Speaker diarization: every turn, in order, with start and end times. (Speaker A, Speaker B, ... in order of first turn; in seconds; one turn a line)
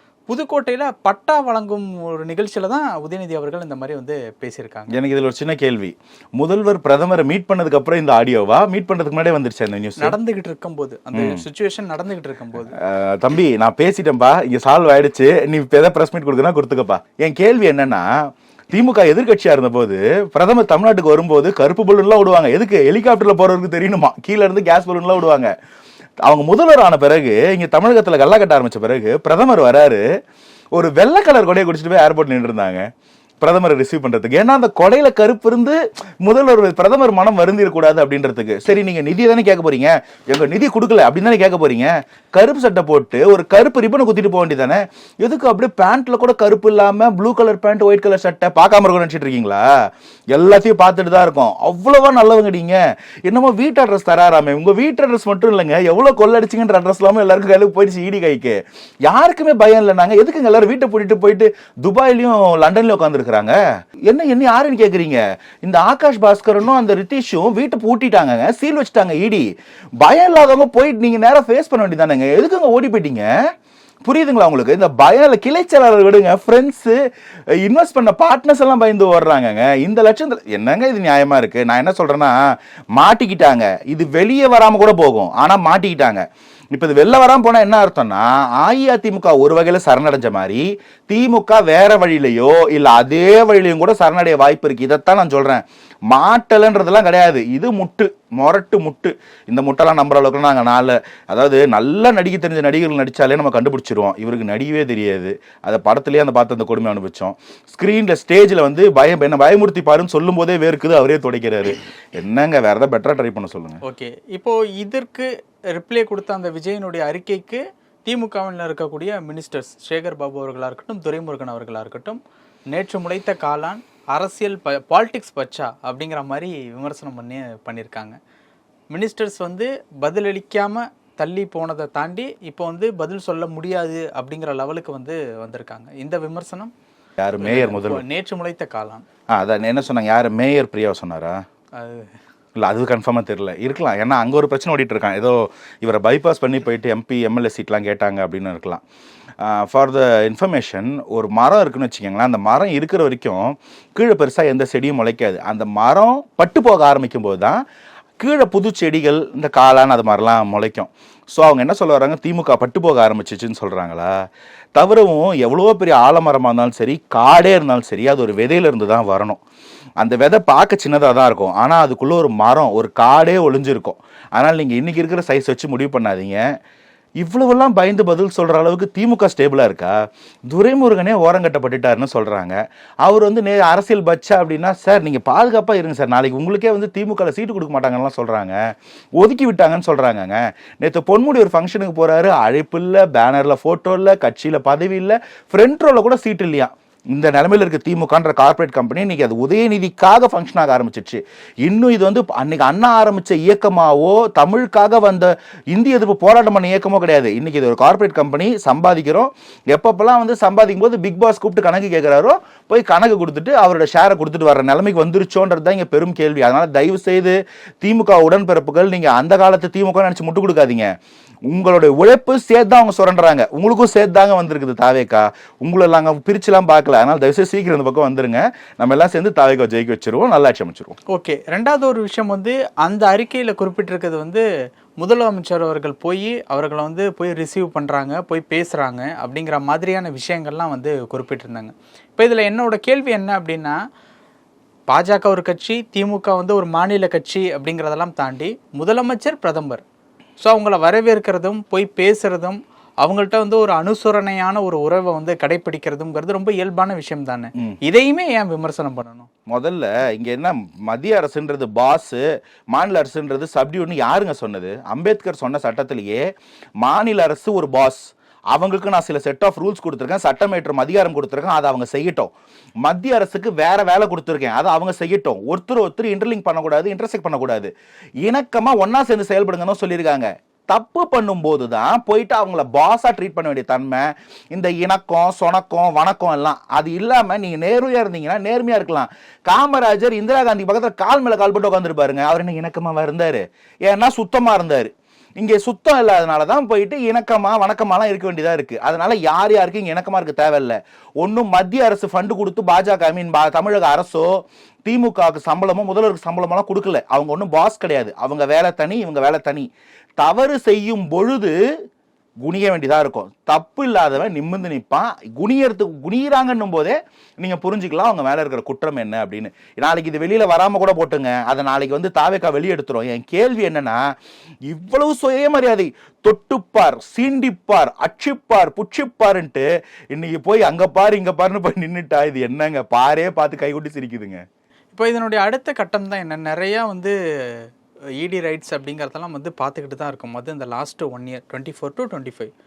Speaker A: 0.3-5.0
Speaker B: 4.9-10.2
Speaker A: 10.0-12.7
Speaker B: 11.1-11.4
Speaker B: 12.8-25.5
Speaker B: 26.2-30.0
Speaker B: 30.7-32.9
Speaker B: 33.4-69.5
Speaker B: 70.0-73.3
Speaker B: 74.0-77.0
Speaker B: 77.6-113.8
Speaker A: 113.8-122.2
Speaker A: 122.7-128.2
Speaker A: 128.9-136.7
Speaker B: 137.2-138.0
Speaker A: 137.4-139.0
Speaker B: 139.3-141.4
Speaker A: 141.8-142.1
Speaker B: 142.6-148.8
Speaker B: 149.4-157.6
Speaker B: 158.2-169.4
Speaker B: 170.0-176.4
Speaker B: 177.2-188.6
Speaker B: 189.2-220.9
Speaker B: 221.5-230.9
Speaker A: 231.1-234.4
Speaker A: 235.0-243.8
Speaker A: 244.9-249.8
Speaker A: 250.4-259.3
Speaker B: 259.5-266.3
Speaker B: 266.8-277.7
Speaker B: 278.2-309.7
Speaker B: 310.2-311.6
Speaker B: 312.4-324.0
Speaker B: 324.7-334.4
Speaker A: 334.9-337.7
Speaker A: 338.2-342.5